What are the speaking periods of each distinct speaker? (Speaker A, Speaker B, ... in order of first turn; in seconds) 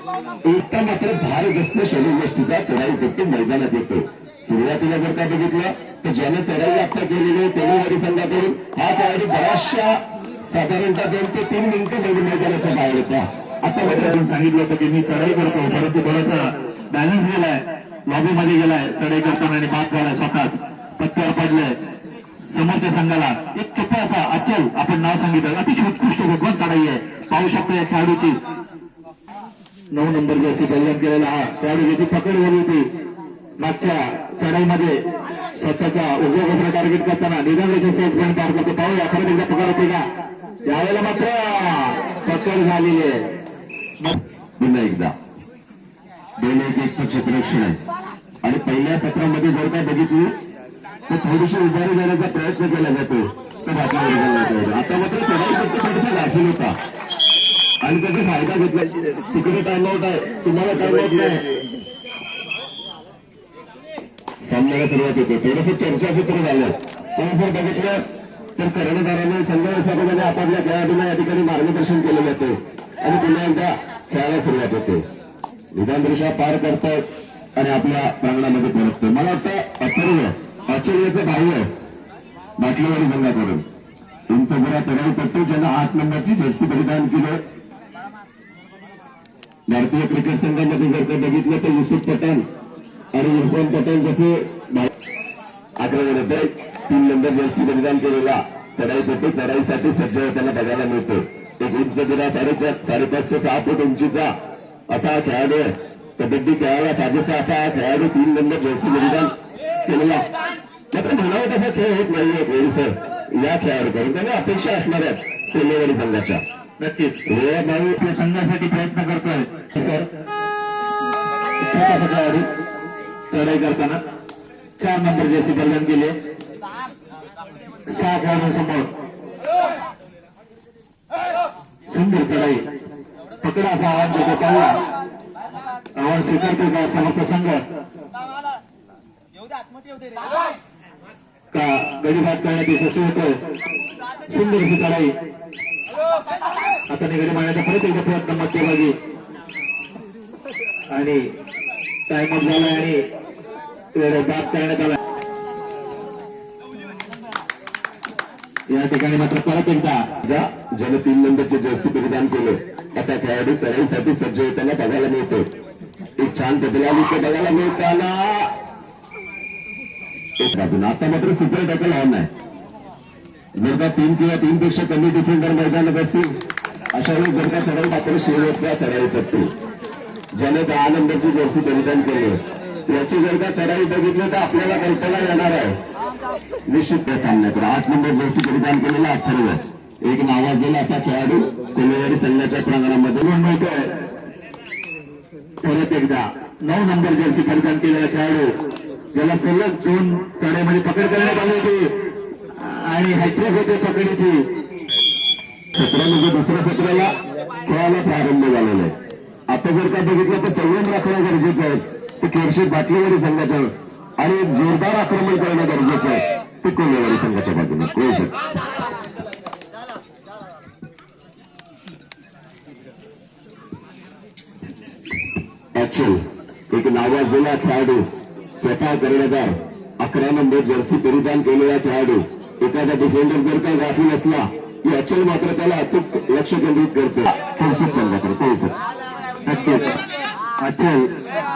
Speaker A: 0.4-14.2, 44.6-45.1, 46.4-47.8, 48.4-50.3, 51.1-56.7, 57.8-61.5, 64.5-68.0, 68.6-75.0, 75.7-77.0, 77.6-81.7, 82.6-83.6, 84.3-87.4, 89.7-92.5, 93.1-94.9, 95.8-104.3, 104.9-110.2, 110.9-116.4, 117.3-118.0, 160.2-165.5, 166.2-168.5, 170.4-172.3, 173.6-176.3, 176.9-179.5, 180.3-185.7, 186.7-193.3, 205.7-208.9, 209.5-218.3, 225.8-228.1, 228.6-238.7
Speaker B: 13.8-21.8, 22.5-28.4, 29.9-32.9, 33.6-35.0, 35.5-40.0, 40.6-43.2, 116.8-117.3, 118.0-120.1, 121.6-122.5, 123.3-124.0, 124.8-126.1, 127.9-128.9, 131.9-132.6, 133.4-134.8, 135.9-137.6, 141.5-143.4, 144.3-145.1, 146.9-148.9, 150.9-151.3, 152.1-153.1, 153.9-155.0, 158.7-160.1, 193.2-193.9, 195.6-198.5, 199.1-201.9, 202.6-204.4, 239.4-239.9, 240.6-241.1